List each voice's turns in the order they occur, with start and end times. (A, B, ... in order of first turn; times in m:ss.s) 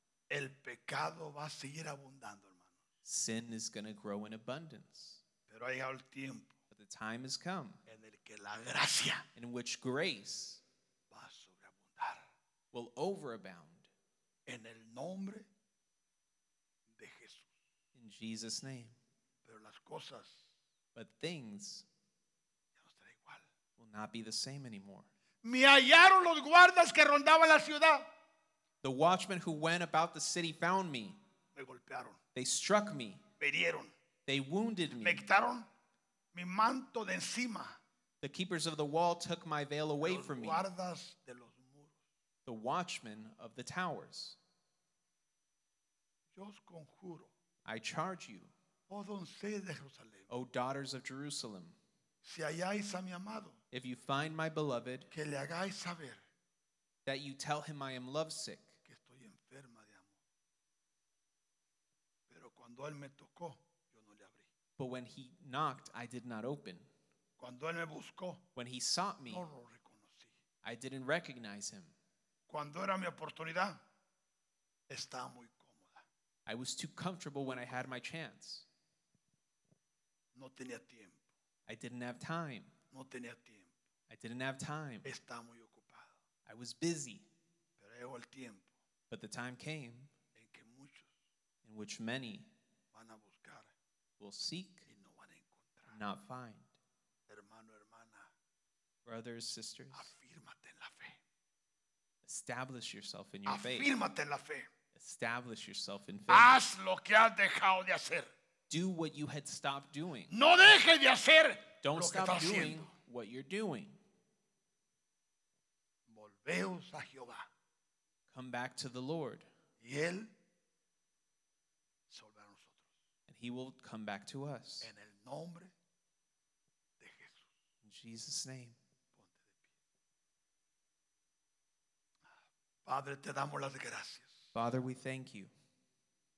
0:00.3-0:02.7 A
0:03.0-0:05.2 B
0:05.5-0:06.6 A
0:06.7-0:07.8 B
0:07.9-0:09.3 A
0:09.4-0:10.6 B
0:11.1-0:12.3 A
0:12.7-0:13.9 B
0:14.5-0:15.5 A
0:16.9-0:17.5 A
0:18.0-0:19.0 B
0:19.4-0:20.4 A
0:21.0-0:21.9 B
0:22.8-0:23.4 A
0:23.8-0:25.1 B
0:25.4-0:28.1 A
0:28.8-0:31.2 B
0:31.6-0:32.2 A
0:32.3-0:33.2 B
0:33.4-0:33.9 A
0:34.3-0:35.2 B
0:35.0-0:35.7 A
0:36.3-0:37.8 A
0:38.2-0:40.7 B
0:40.0-0:41.9 A
0:42.5-0:44.4 B
0:46.3-0:47.3 A
0:47.6-0:48.5 B
0:48.9-0:50.3 A
0:50.3-0:51.8 B
0:52.2-0:53.6 A
0:53.7-0:55.1 B
0:55.1-0:56.2 A
0:57.1-0:58.8 B
0:58.8-1:00.1 A
1:02.3-1:04.5 A
1:04.8-1:06.9 B
1:07.4-1:08.4 A
1:08.6-1:09.5 B
1:09.3-1:10.3 A
1:10.6-1:11.9 B
1:12.5-1:13.8 A
1:14.9-1:16.0 A
1:16.5-1:18.7 B
1:20.4-1:21.2 A
1:21.7-1:22.8 B
1:22.9-1:23.7 A
1:24.1-1:25.1 B
1:25.0-1:26.1 A
1:26.5-1:27.3 B
1:27.8-1:28.7 A
1:29.1-1:30.1 B
1:30.4-1:31.1 A
1:31.6-1:32.5 B
1:32.9-1:33.7 A
1:34.2-1:34.9 B
1:34.9-1:36.0 A
1:35.9-1:36.8 B
1:37.3-1:38.3 A
1:39.0-1:40.1 B
1:39.9-1:41.2 A
1:42.2-1:43.9 B
1:43.5-1:44.7 A
1:45.0-1:46.6 B
1:46.3-1:48.3 A
1:48.7-1:50.3 B
1:50.3-1:52.9 A
1:51.8-1:54.0 B
1:56.1-1:57.4 A
1:58.3-1:59.5 B
1:59.8-2:00.3 A
2:02.1-2:02.8 A
2:03.3-2:04.9 B
2:04.8-2:05.7 A
2:07.0-2:07.5 A
2:07.8-2:08.8 B
2:09.1-2:09.7 A
2:12.8-2:14.5 A
2:14.5-2:15.5 B